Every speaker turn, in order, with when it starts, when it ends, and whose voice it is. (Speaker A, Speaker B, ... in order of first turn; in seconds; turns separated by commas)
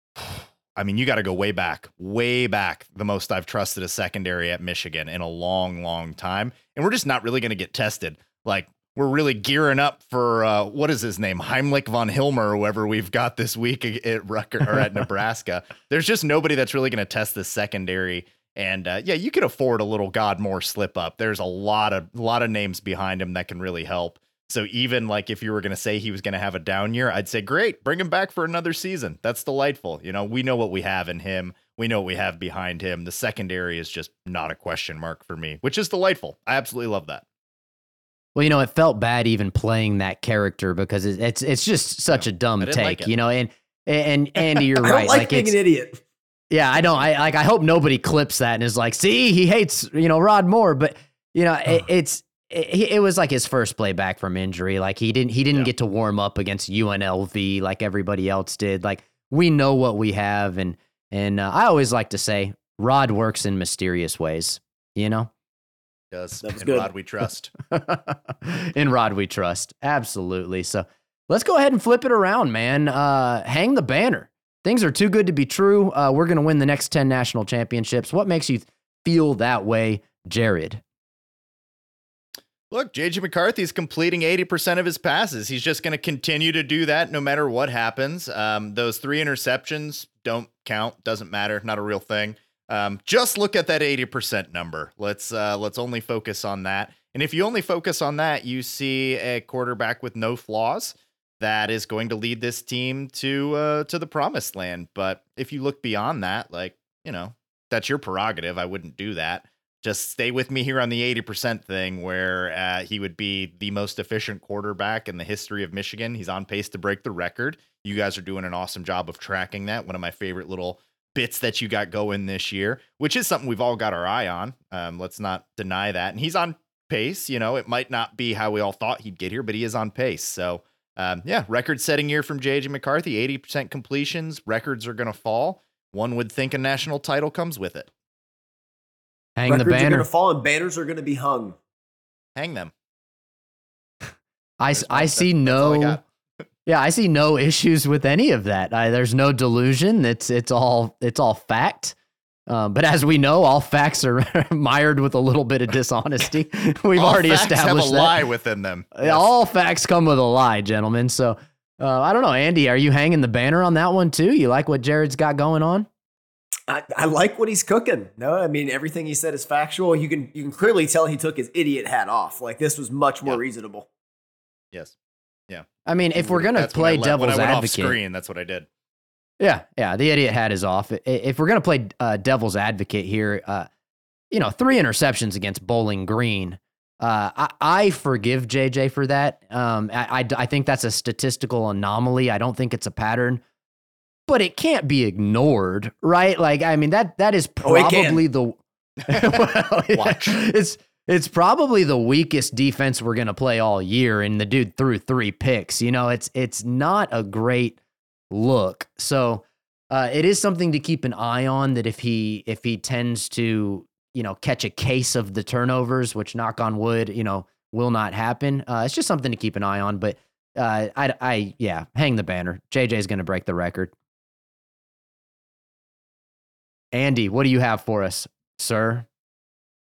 Speaker A: 0.2-37.2, Speaker B: 38.4-45.5, Speaker A: 42.1-43.1, Speaker C: 44.8-46.0, Speaker B: 46.5-65.3, Speaker A: 66.1-67.5, Speaker C: 66.4-66.9, Speaker B: 67.7-80.8, Speaker A: 82.7-137.9, Speaker B: 139.4-140.1, Speaker C: 139.5-141.6, Speaker A: 142.4-142.7, Speaker B: 144.6-146.0, Speaker A: 144.7-146.0, Speaker B: 146.7-151.9, Speaker B: 152.5-158.2, Speaker A: 157.0-159.3, Speaker B: 159.0-165.9, Speaker C: 166.7-173.9, Speaker A: 175.5-178.7, Speaker B: 175.9-178.0, Speaker B: 179.4-183.7, Speaker B: 184.3-193.4, Speaker B: 194.3-207.8, Speaker C: 197.6-198.2, Speaker A: 199.1-200.4, Speaker B: 208.3-223.9, Speaker B: 226.9-229.1